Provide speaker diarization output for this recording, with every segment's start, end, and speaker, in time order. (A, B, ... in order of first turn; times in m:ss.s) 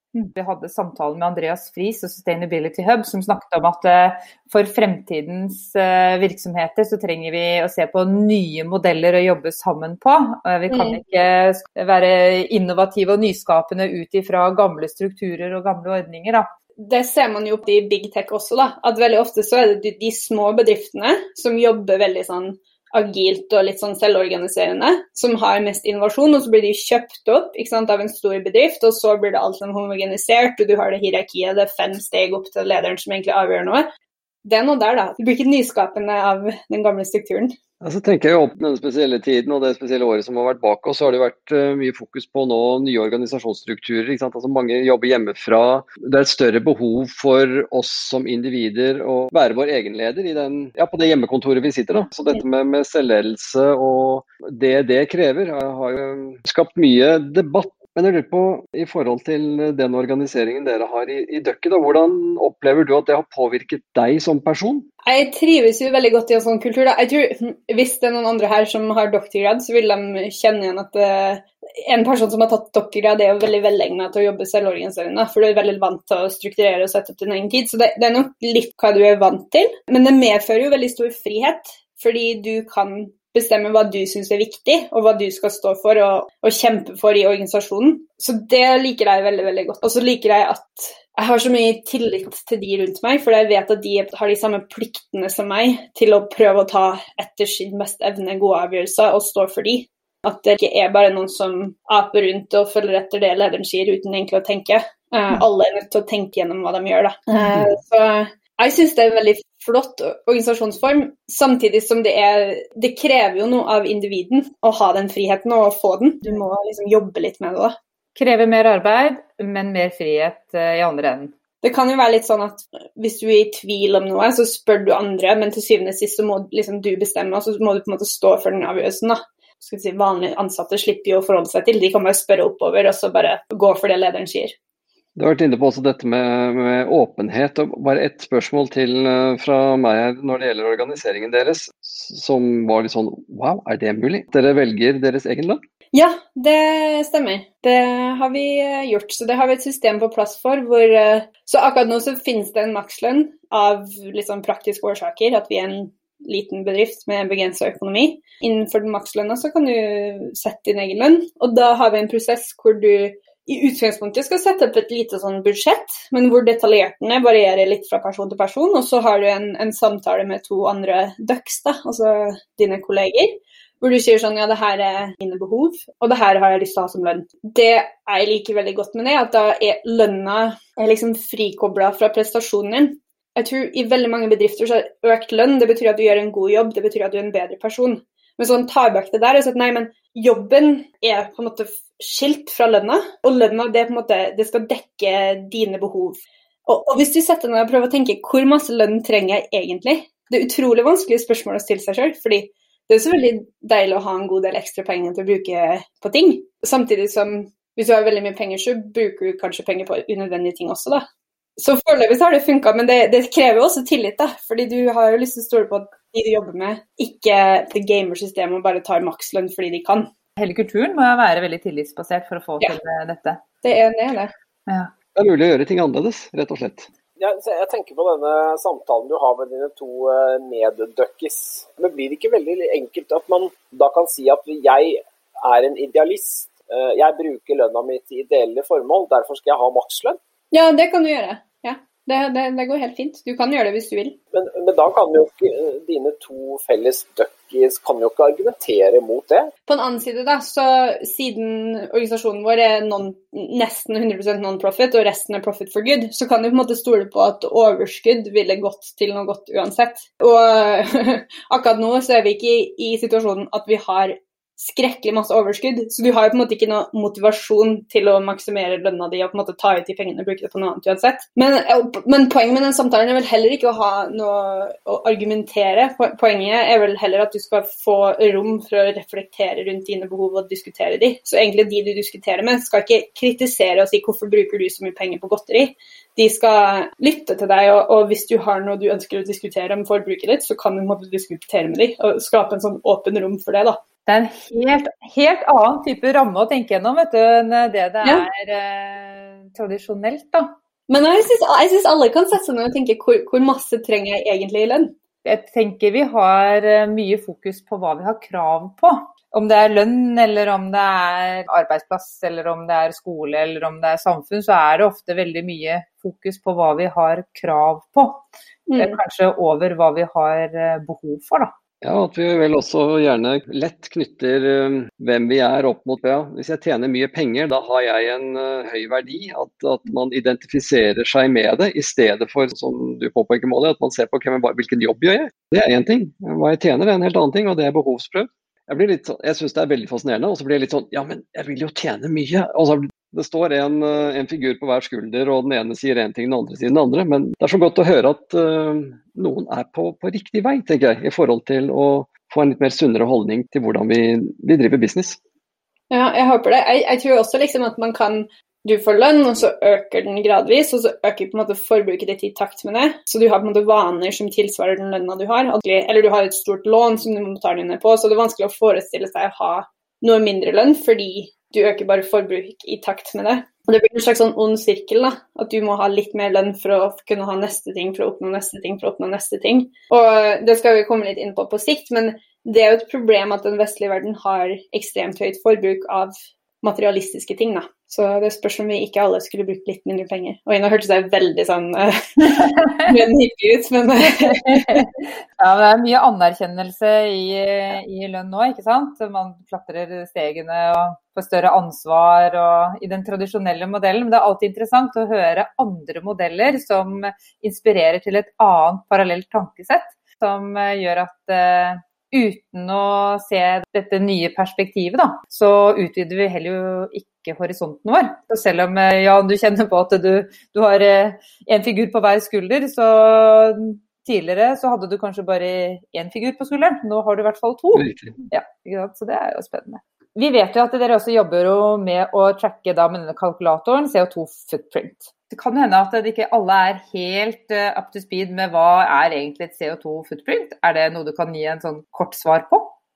0:00.2-0:16.5 A
0:10.7-0:11.0 B
0:16.8-0:33.9 B
0:34.4-0:37.5 B
0:37.8-1:04.9 C
1:05.1-1:57.8 B
1:58.2-2:01.4 A
2:01.6-2:14.6 B
2:15.2-2:25.6 C
2:25.9-3:31.0 B
3:31.6-3:40.1 B
3:40.4-3:43.4 A
3:43.6-3:44.3 B
3:45.2-3:46.9 C
3:47.2-4:00.2 D
4:00.5-4:04.2 B
4:04.3-4:09.5 D
4:09.7-4:53.8 B
4:54.1-5:00.6 A
5:00.9-5:05.0 B
5:05.2-5:18.2 A
5:18.7-5:19.0 B
5:18.8-5:21.5 A
5:21.8-5:55.2 C
5:55.9-6:34.9 B
6:34.1-7:22.7 A
7:07.7-7:08.2 C